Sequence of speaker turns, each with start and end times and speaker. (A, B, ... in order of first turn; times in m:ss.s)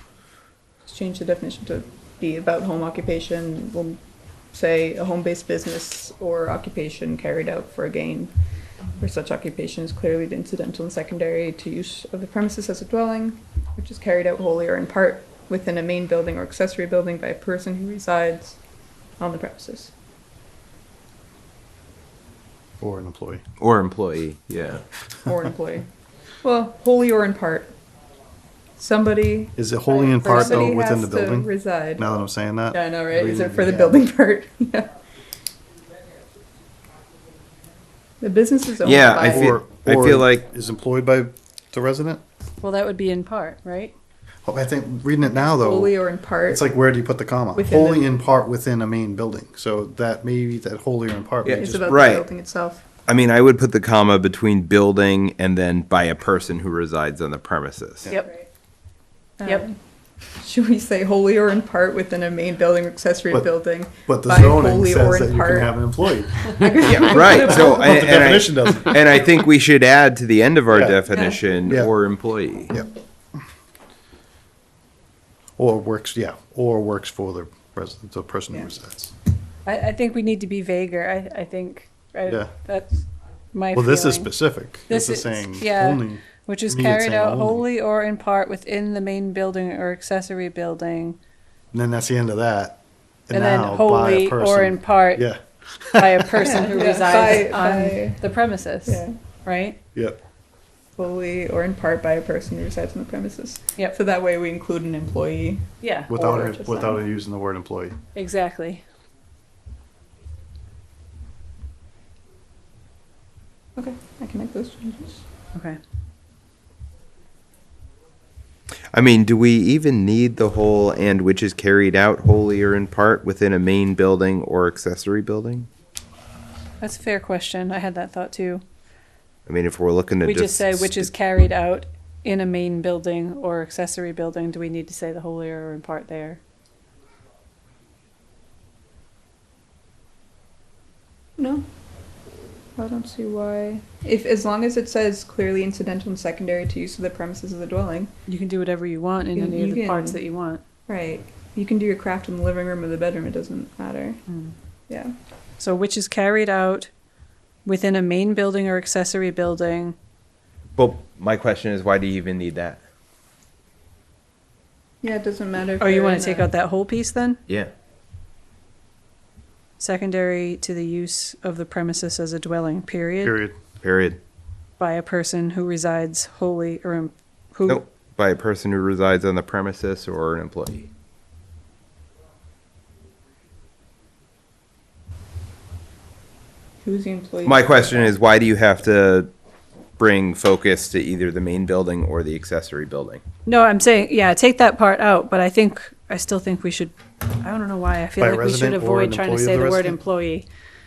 0:00.8-0:08.4 A
0:09.0-0:18.6 A
0:19.2-0:19.9 A
0:22.8-0:23.4 B
0:23.6-0:24.8 C
0:25.2-0:25.9 A
0:26.4-0:27.7 A
0:28.8-0:32.0 A
0:29.6-0:34.0 B
0:30.3-0:30.7 D
0:32.7-0:34.9 A
0:38.2-0:39.6 A
0:38.8-0:40.4 C
0:39.3-0:42.2 B
0:42.6-0:43.9 D
0:44.4-0:52.0 B
0:45.4-0:46.6 A
0:47.5-0:48.1 A
0:51.4-0:52.3 C
0:51.5-0:52.8 A
0:53.0-0:58.1 C
0:58.1-0:58.4 D
0:59.4-0:59.8 A
1:00.4-1:08.1 A
1:04.0-1:09.2 B
1:06.8-1:12.8 C
1:10.7-1:11.0 B
1:11.7-1:11.9 B
1:15.6-1:19.1 B
1:19.6-1:24.3 D
1:22.2-1:22.5 B
1:23.7-1:27.6 B
1:24.9-1:31.2 D
1:31.7-1:36.5 B
1:33.3-1:35.3 D
1:35.9-1:39.8 D
1:36.4-1:38.2 A
1:38.8-1:39.1 A
1:41.0-1:47.0 A
1:45.8-1:46.1 D
1:46.1-1:48.0 B
1:48.1-1:48.8 D
1:53.8-1:55.2 A
1:55.5-1:55.8 D
1:58.9-2:05.7 C
2:06.8-2:08.6 D
2:09.4-2:11.1 C
2:10.2-2:16.4 D
2:21.4-2:21.7 A
2:22.8-2:28.1 A
2:28.2-2:30.6 D
2:29.3-2:30.2 A
2:30.9-2:34.2 A
2:34.3-2:34.5 D
2:34.9-2:35.1 A
2:35.6-2:36.9 D
2:37.6-2:40.0 D
2:40.8-2:42.8 C
2:45.0-2:46.5 A
2:45.8-2:47.4 D
2:47.5-2:47.7 C
2:49.8-2:53.4 D
2:53.2-2:53.6 B
2:53.8-2:54.2 C
2:54.8-2:57.8 D
2:57.7-3:00.9 C
3:06.8-3:08.1 A
3:07.4-3:09.3 C
3:10.0-3:13.2 C
3:13.4-3:20.5 D
3:18.2-3:20.0 B